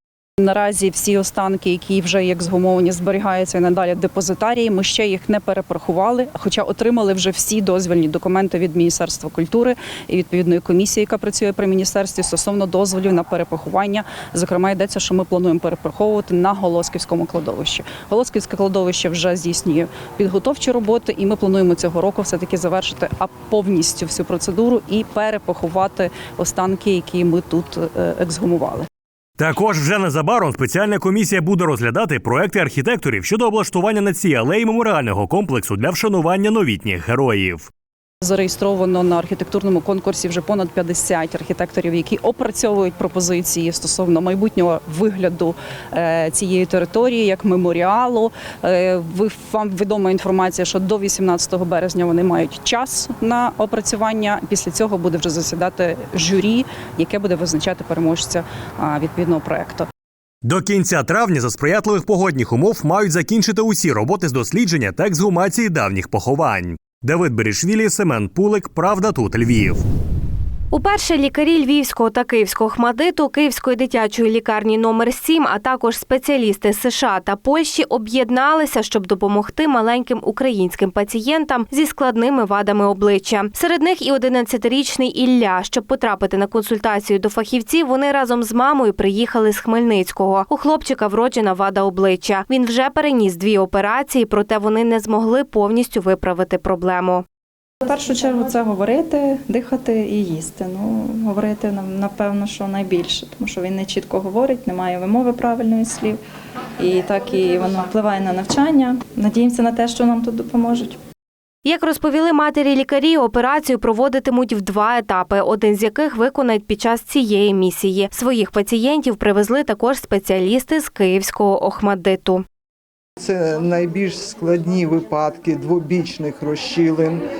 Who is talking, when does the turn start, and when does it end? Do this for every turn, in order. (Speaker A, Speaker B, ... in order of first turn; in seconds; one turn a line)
Speaker A: 0.4-28.9
Speaker B: 29.4-37.7
Speaker A: 38.2-59.9
Speaker B: 60.4-69.8
Speaker C: 70.7-97.2
Speaker D: 97.8-106.2
Speaker D: 106.8-111.0
Speaker C: 111.7-122.4
Speaker E: 123.2-127.2